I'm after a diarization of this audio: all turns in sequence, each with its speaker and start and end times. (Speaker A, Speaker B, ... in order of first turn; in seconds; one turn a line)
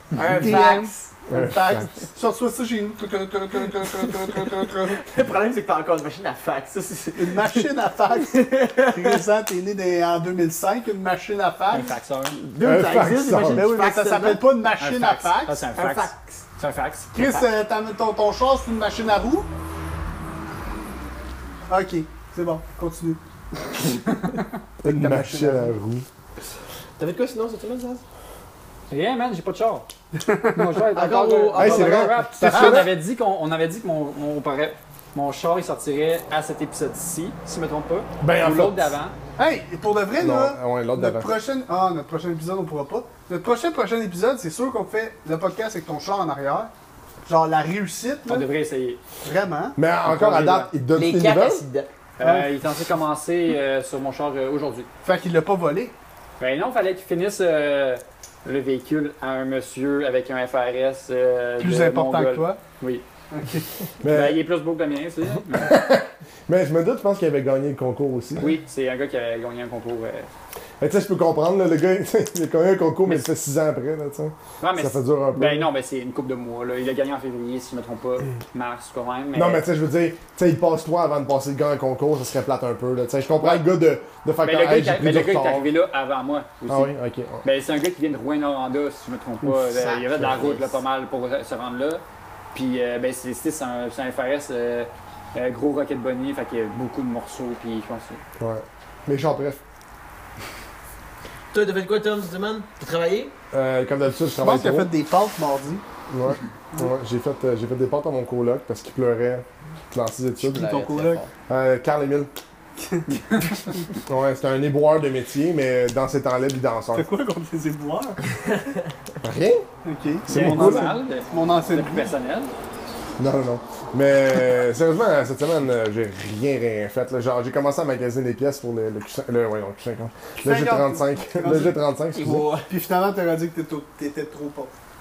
Speaker A: 0.1-1.1
Speaker B: 0.4-5.0
Speaker C: 1.3-1.9
Speaker A: 5.0-7.7
Speaker B: 7.2-11.9
Speaker A: 8.2-9.2
Speaker D: 11.7-12.4
Speaker A: 12.4-14.4
Speaker C: 12.6-13.7
Speaker B: 13.3-15.6
Speaker D: 14.8-17.1
Speaker A: 15.8-16.4
Speaker B: 17.1-19.5
Speaker A: 17.2-17.5
Speaker B: 21.7-23.2
Speaker C: 24.8-26.1
Speaker B: 24.8-25.7
Speaker A: 27.0-28.0
Speaker D: 28.9-29.9
Speaker B: 30.2-30.7
Speaker D: 30.5-39.2
Speaker A: 30.9-32.2
Speaker C: 31.6-32.9
Speaker B: 32.4-32.8
Speaker C: 38.2-38.9
Speaker B: 39.4-46.7
Speaker C: 40.2-41.3
Speaker B: 47.3-48.5
Speaker D: 48.3-49.0
Speaker B: 49.2-49.8
Speaker C: 49.8-51.6
Speaker D: 50.0-50.7
Speaker A: 50.9-51.9
Speaker D: 52.2-54.9
Speaker B: 52.2-52.5
Speaker B: 55.0-55.9
Speaker D: 56.4-63.0
Speaker B: 61.6-62.6
Speaker B: 63.3-63.8
Speaker C: 64.0-64.4
Speaker D: 64.0-65.8
Speaker C: 65.6-68.5
Speaker D: 68.4-70.3
Speaker C: 70.8-75.7
Speaker D: 74.6-79.6
Speaker C: 79.3-85.7
Speaker D: 84.4-86.9
Speaker C: 86.7-87.5
Speaker D: 87.4-92.0
Speaker A: 89.5-90.8
Speaker D: 92.5-98.2
Speaker C: 98.4-99.6
Speaker A: 101.5-103.3
Speaker C: 103.5-104.9
Speaker B: 104.4-105.8
Speaker C: 106.1-110.7
Speaker A: 110.4-111.3
Speaker B: 110.5-111.2
Speaker C: 111.5-112.3
Speaker B: 112.8-113.6
Speaker D: 113.1-113.6
Speaker C: 114.1-117.1
Speaker B: 116.9-118.2
Speaker C: 119.2-119.7
Speaker B: 119.8-122.1
Speaker C: 120.3-121.0
Speaker D: 120.3-122.5
Speaker C: 123.2-132.5
Speaker B: 130.4-131.8
Speaker A: 132.1-132.7
Speaker B: 132.7-134.7